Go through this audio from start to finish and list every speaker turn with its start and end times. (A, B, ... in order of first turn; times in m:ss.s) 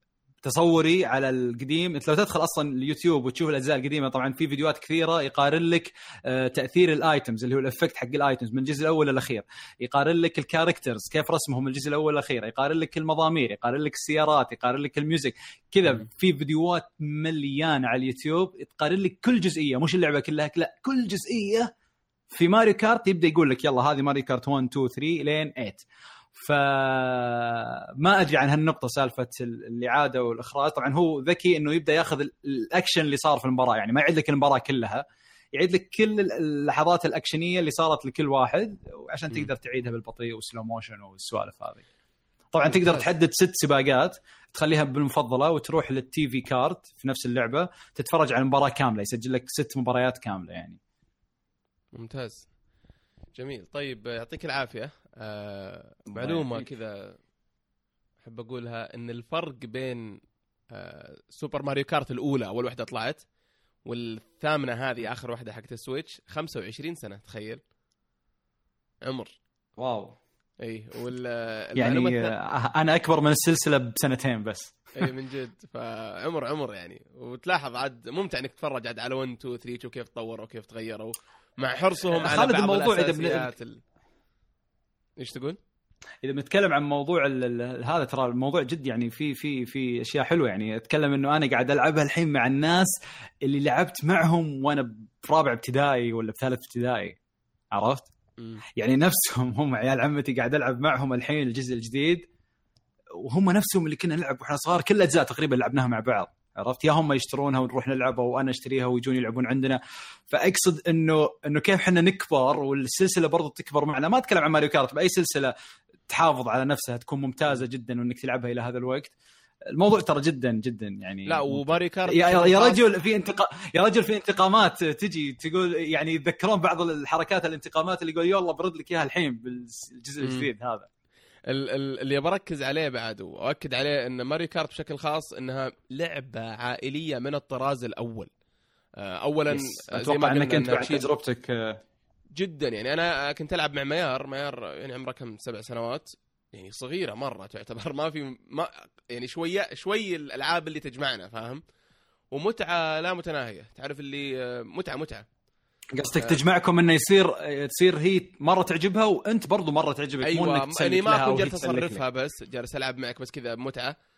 0:00.4-0:21.7 A
0:22.3-0:35.0 A
0:35.5-0:41.8 A
0:42.5-0:50.8 A
0:42.7-0:43.1 B
0:51.9-0:52.5 B
0:53.3-0:57.2 B
0:56.1-0:56.6 A
0:58.2-1:03.2 B
1:03.8-1:07.6 B
1:09.0-1:09.3 B
1:09.8-1:10.2 A
1:10.6-1:12.3 B
1:11.8-1:15.1 A
1:15.0-1:23.8 B
1:22.0-1:23.5 A
1:25.2-1:25.6 B
1:26.2-1:32.9 A
1:33.4-1:37.2 A
1:37.7-1:38.1 A
1:38.8-1:42.3 A
1:43.2-1:49.8 A
1:50.3-1:55.5 A
1:56.1-1:59.1 A
1:59.7-2:10.9 A
2:01.3-2:02.8 B
2:10.2-2:10.5 B
2:11.4-2:18.3 B
2:19.0-2:21.1 B
2:19.5-2:21.8 A
2:22.3-2:31.6 B
2:32.3-2:35.2 B
2:35.9-2:42.0 A
2:40.2-2:43.9 B